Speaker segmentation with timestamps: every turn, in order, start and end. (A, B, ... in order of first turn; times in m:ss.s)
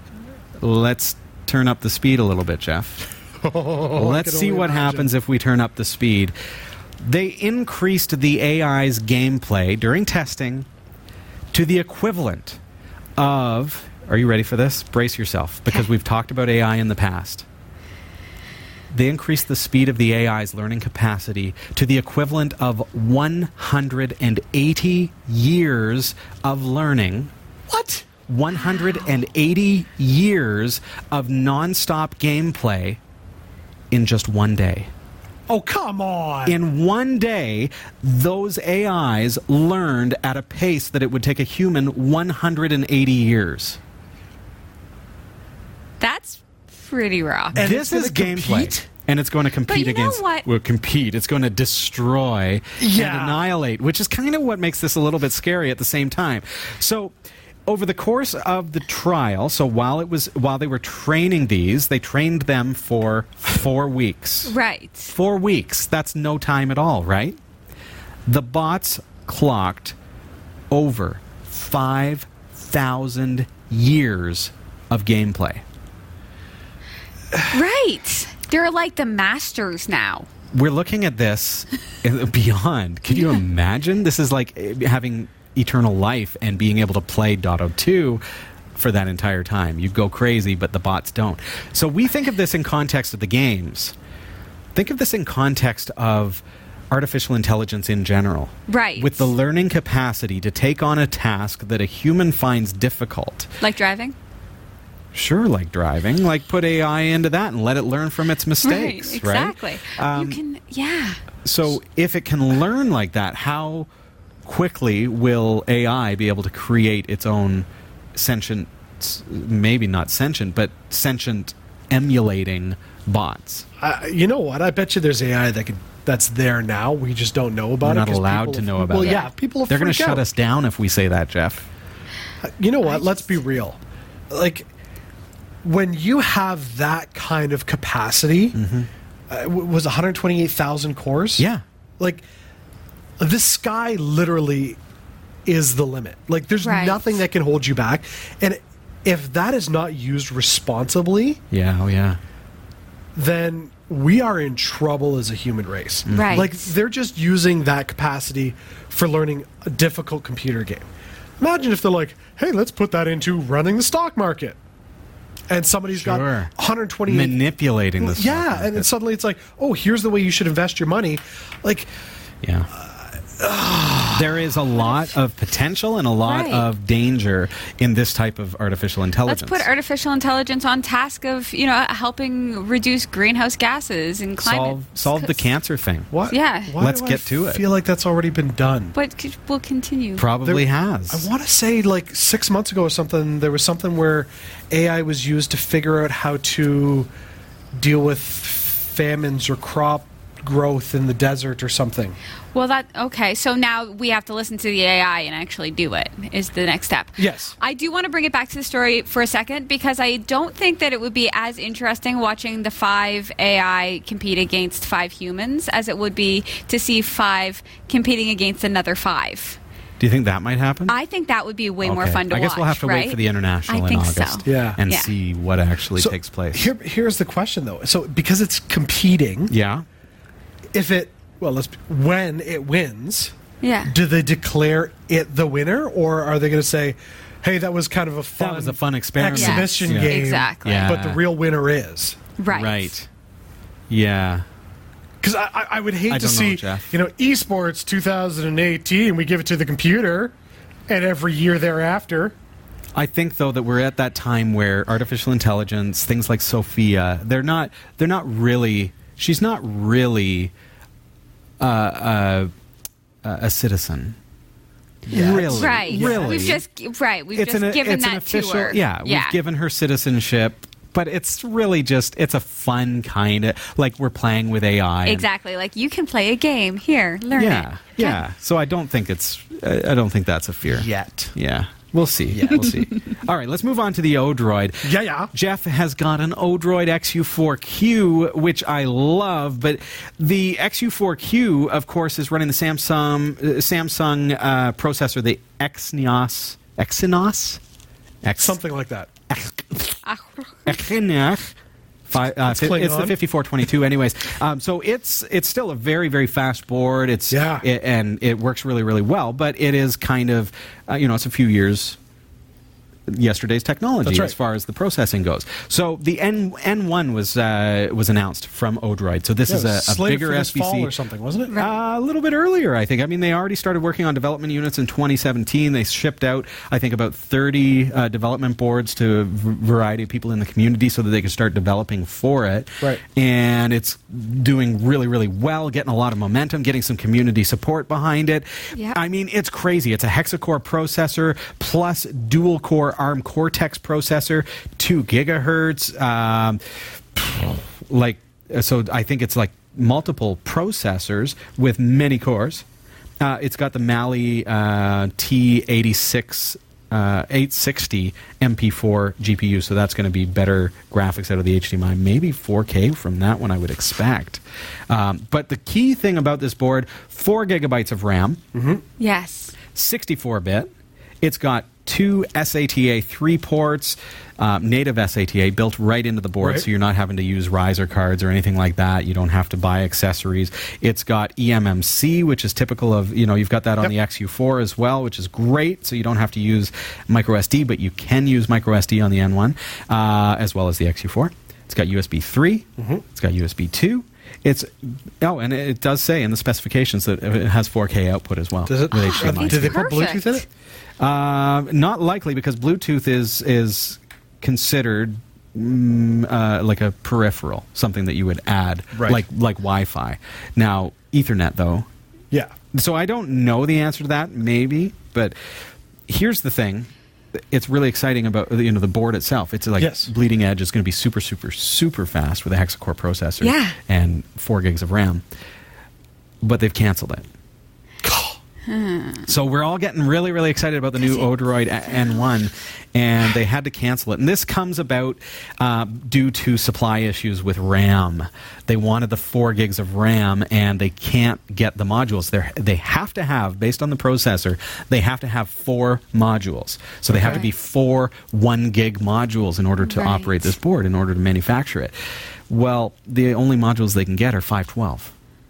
0:00.6-0:03.1 A
0:03.4-0:05.1 B
0:03.9-0:06.4 A
0:07.0-0:10.7 A
0:11.5-0:12.6 A
0:13.2-0:17.4 A
0:18.9-0:27.3 A
0:27.7-0:28.1 B
0:28.3-0:33.0 A
0:33.9-0:34.9 A
0:35.5-0:36.6 B
0:36.5-0:43.8 A
0:46.0-0:47.6 C
0:47.6-0:48.8 B
0:47.6-0:57.1 A
0:49.7-0:50.5 C
0:52.8-0:53.4 B
0:57.7-1:04.5 A
1:04.5-1:05.1 C
1:05.1-1:07.4 A
1:08.3-1:10.0 A
1:10.7-1:15.6 A
1:17.4-1:20.3 C
1:20.5-1:28.2 A
1:28.8-1:34.0 A
1:34.8-1:43.5 A
1:38.7-1:39.3 C
1:43.6-1:44.2 C
1:45.1-1:50.4 A
1:48.6-1:51.2 C
1:51.4-1:53.9 A
1:54.5-2:03.7 A
2:03.8-2:10.3 B
2:07.8-2:11.7 A
2:09.0-2:09.3 C
2:12.4-2:13.8 B
2:12.8-2:13.4 C
2:14.3-2:14.7 B
2:15.6-2:18.6 B
2:18.5-2:18.9 A
2:19.3-2:21.5 B
2:21.4-2:21.6 A
2:22.0-2:22.2 B
2:23.2-2:24.8 B
2:25.5-2:31.4 B
2:26.6-2:27.0 C
2:31.5-2:32.2 A
2:33.2-2:40.9 B
2:36.1-2:36.4 A
2:36.1-2:36.7 C
2:41.4-2:44.6 B
2:45.5-2:47.4 B
2:45.9-2:46.5 A
2:47.1-2:48.9 A
2:48.0-2:51.9 B
2:52.4-2:52.7 A
2:52.7-2:54.4 B
2:54.1-2:59.7 A
2:56.3-2:56.7 C
2:59.3-3:05.4 C
3:04.4-3:06.1 A
3:06.1-3:09.0 B
3:06.3-3:06.8 C
3:06.8-3:07.6 A
3:08.9-3:10.2 C
3:10.2-3:11.3 A
3:10.4-3:17.1 B
3:17.8-3:22.2 B
3:22.5-3:39.6 C
3:27.2-3:27.6 B
3:40.0-3:41.0 A
3:40.9-3:45.1 C
3:41.8-3:46.7 A
3:44.4-3:44.8 B
3:46.0-3:49.5 B
3:49.5-3:49.8 A
3:50.7-3:53.3 B
3:53.6-3:53.9 C
3:53.8-4:02.2 B
3:58.4-4:01.2 A
3:59.3-4:00.9 C
4:02.4-4:02.9 C
4:02.5-4:03.1 A
4:03.9-4:04.5 A
4:05.2-4:10.3 B
4:06.1-4:06.9 A
4:10.9-4:12.4 B
4:13.0-4:20.5 A
4:21.6-4:22.5 A
4:23.2-4:24.2 A
4:25.1-4:26.6 A
4:25.1-4:26.6 B
4:25.4-4:29.4 C
4:27.4-4:35.3 A
4:35.0-4:38.2 C
4:37.4-4:57.6 A
4:40.8-4:41.3 B
4:42.3-4:42.7 B
4:44.8-4:45.3 B
4:58.2-4:58.6 A
4:58.4-4:59.1 B
4:59.3-5:00.0 A
5:00.0-5:00.7 C
5:00.7-5:01.6 A
5:02.1-5:12.0 A
5:02.4-5:03.2 B
5:07.3-5:07.7 B
5:13.1-5:20.9 A
5:14.0-5:14.4 B
5:19.5-5:21.5 B
5:21.5-5:46.6 A
5:38.7-5:39.0 C
5:47.2-5:52.6 A
5:53.2-6:08.4 A
6:08.5-6:08.8 B
6:09.0-6:09.6 C
6:09.7-6:39.8 A
6:16.4-6:16.7 B
6:32.8-6:33.0 B
6:38.7-6:40.5 B
6:38.9-6:40.4 C
6:41.0-6:51.9 A
6:48.9-6:49.2 B
6:52.7-6:55.4 A
6:56.1-7:05.2 A
6:59.8-7:00.1 B
7:03.4-7:03.8 C
7:06.4-7:07.3 A
7:08.0-7:08.4 B
7:08.7-7:09.3 C
7:09.3-7:32.0 A
7:11.0-7:11.3 C
7:11.9-7:12.2 C
7:27.1-7:27.4 B
7:29.8-7:30.6 C
7:32.5-7:35.1 A